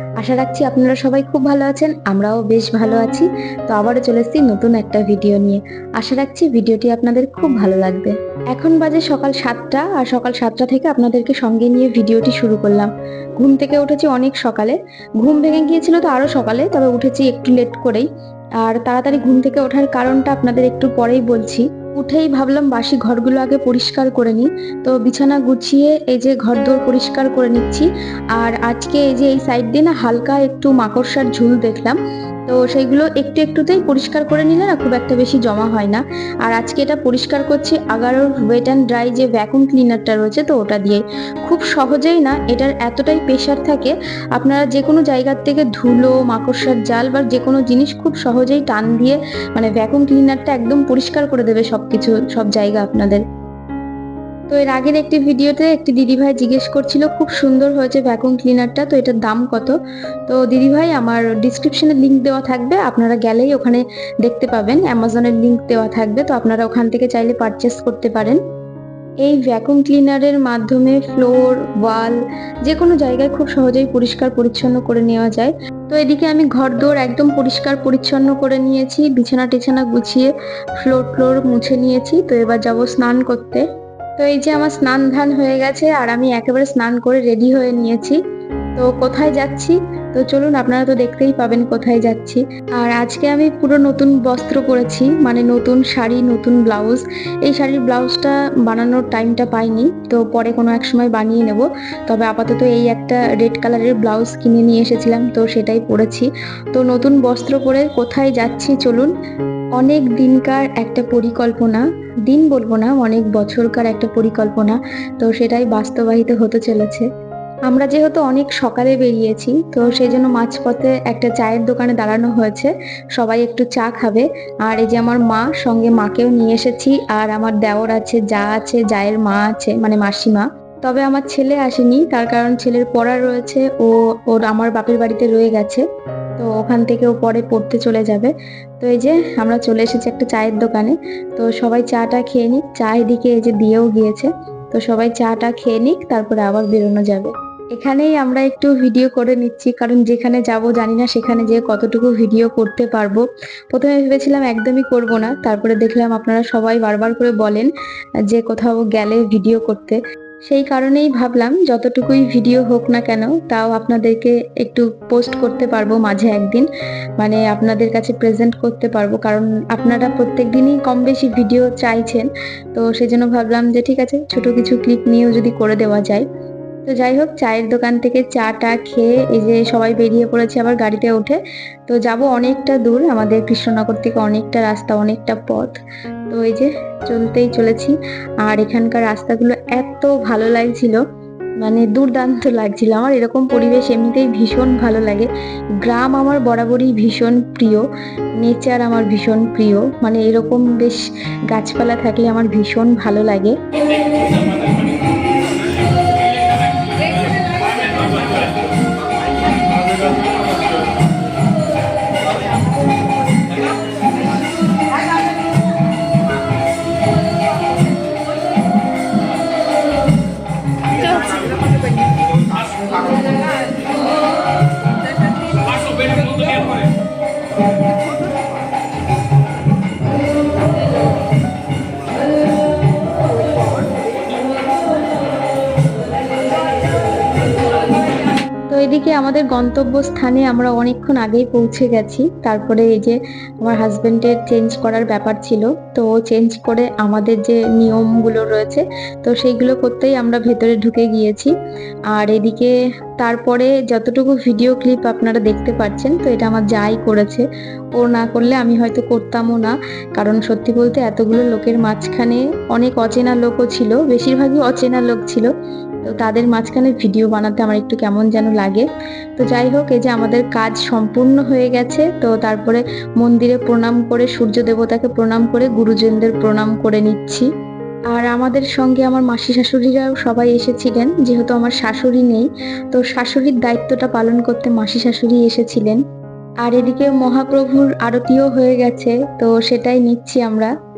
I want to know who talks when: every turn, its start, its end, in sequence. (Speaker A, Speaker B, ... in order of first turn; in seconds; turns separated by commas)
Speaker A: 0.2-18.1, Speaker A: 18.6-53.2, Speaker A: 54.5-59.8, Speaker A: 60.3-68.4, Speaker A: 69.2-83.7, Speaker A: 84.2-88.2, Speaker A: 88.8-109.1, Speaker A: 109.8-117.1, Speaker A: 117.7-135.9, Speaker A: 136.4-157.7, Speaker A: 158.3-166.7, Speaker A: 167.2-176.2, Speaker A: 176.9-185.8, Speaker A: 186.3-191.0, Speaker A: 191.6-195.3, Speaker A: 195.8-197.9, Speaker A: 198.4-203.6, Speaker A: 238.7-251.5, Speaker A: 252.1-257.4, Speaker A: 258.0-265.5, Speaker A: 266.0-277.5, Speaker A: 278.1-286.0, Speaker A: 286.6-290.7